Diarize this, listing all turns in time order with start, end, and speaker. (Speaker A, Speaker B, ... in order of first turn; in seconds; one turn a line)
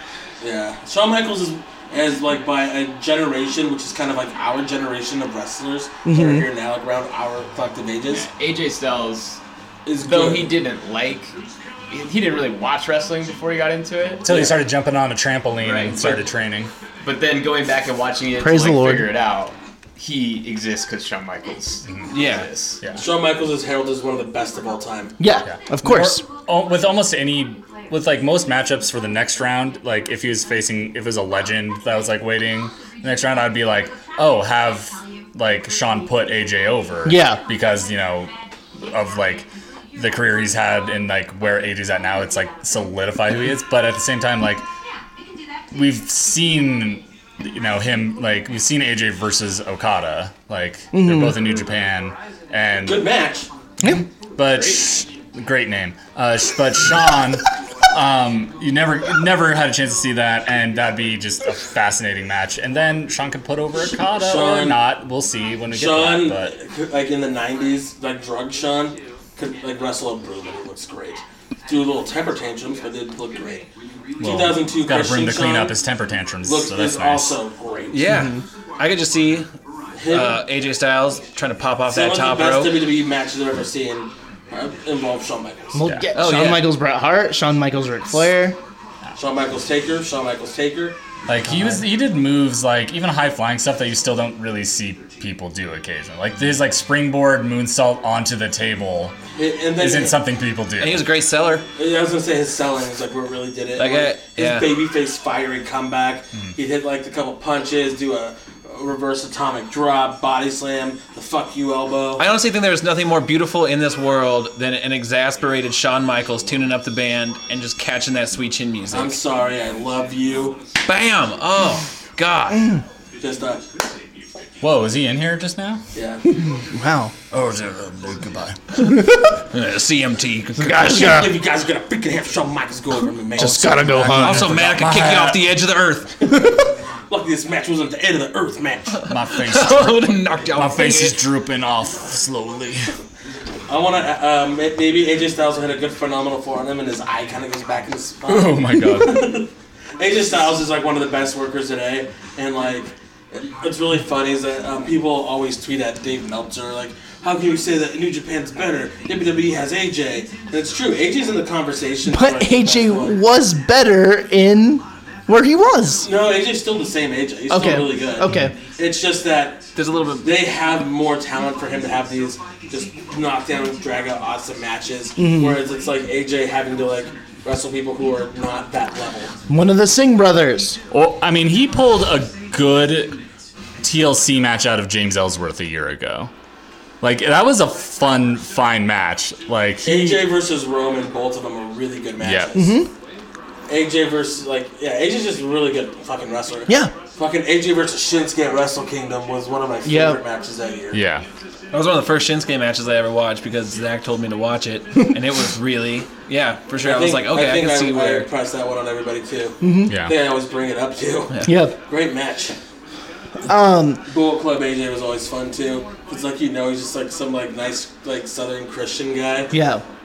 Speaker A: 0.4-8.3
Speaker B: 6.0-6.5
Speaker C: 8.1-9.4
Speaker A: 9.9-10.5
Speaker C: 10.0-11.3
Speaker C: 11.9-14.3
Speaker D: 14.2-16.7
Speaker A: 14.3-14.6
Speaker C: 15.6-16.2
Speaker C: 17.0-22.8
Speaker B: 18.4-19.1
Speaker D: 21.9-22.1
Speaker E: 22.1-22.5
Speaker A: 23.0-25.2
Speaker B: 25.2-26.2
Speaker D: 25.4-44.6
Speaker B: 37.0-37.4
Speaker D: 45.7-53.1
Speaker B: 50.9-51.4
Speaker A: 52.9-53.5
Speaker B: 53.8-54.1
Speaker D: 53.8-66.5
Speaker A: 64.2-64.8
Speaker A: 65.7-73.7
Speaker A: 74.2-75.8
Speaker D: 74.2-77.4
Speaker A: 76.4-78.1
Speaker E: 77.9-79.5
Speaker B: 78.1-78.4
Speaker A: 80.0-80.4
Speaker E: 80.1-82.8
Speaker A: 81.9-85.8
Speaker B: 85.7-88.6
Speaker D: 85.8-86.1
Speaker E: 86.1-86.7
Speaker A: 89.2-91.0
Speaker D: 91.3-99.2
Speaker A: 99.3-100.2
Speaker D: 99.8-101.1
Speaker E: 100.8-101.7
Speaker A: 101.8-112.2
Speaker E: 103.8-104.7
Speaker E: 112.2-119.2
Speaker A: 118.9-120.6
Speaker E: 120.8-122.8
Speaker B: 122.5-122.8
Speaker A: 123.2-123.6
Speaker D: 124.6-125.8
Speaker A: 125.9-126.2
Speaker B: 126.6-127.1
Speaker D: 127.3-128.6
Speaker B: 128.8-129.4
Speaker E: 129.5-131.3
Speaker B: 130.6-131.4
Speaker A: 130.9-134.0
Speaker B: 133.4-134.6
Speaker D: 133.4-135.4
Speaker E: 134.1-136.3
Speaker A: 137.1-139.1
Speaker D: 139.1-143.0
Speaker E: 139.1-141.2
Speaker A: 143.7-163.2
Speaker D: 148.3-149.4
Speaker B: 162.1-166.1
Speaker A: 166.0-169.7
Speaker B: 167.5-168.6
Speaker E: 169.8-170.3
Speaker A: 170.2-179.3
Speaker B: 175.2-175.6
Speaker B: 179.5-180.8
Speaker D: 180.9-183.2
Speaker D: 183.8-186.3
Speaker D: 187.0-190.2
Speaker A: 189.8-192.8
Speaker D: 192.2-192.6
Speaker B: 192.5-192.9
Speaker A: 193.7-201.0
Speaker B: 196.7-196.9
Speaker B: 199.8-200.2
Speaker D: 200.9-201.2
Speaker E: 201.7-208.3
Speaker A: 206.8-212.5
Speaker B: 209.6-209.9
Speaker D: 209.9-210.2
Speaker E: 211.3-211.6
Speaker B: 211.4-211.8
Speaker B: 213.4-214.0
Speaker A: 214.1-219.5
Speaker B: 219.5-219.8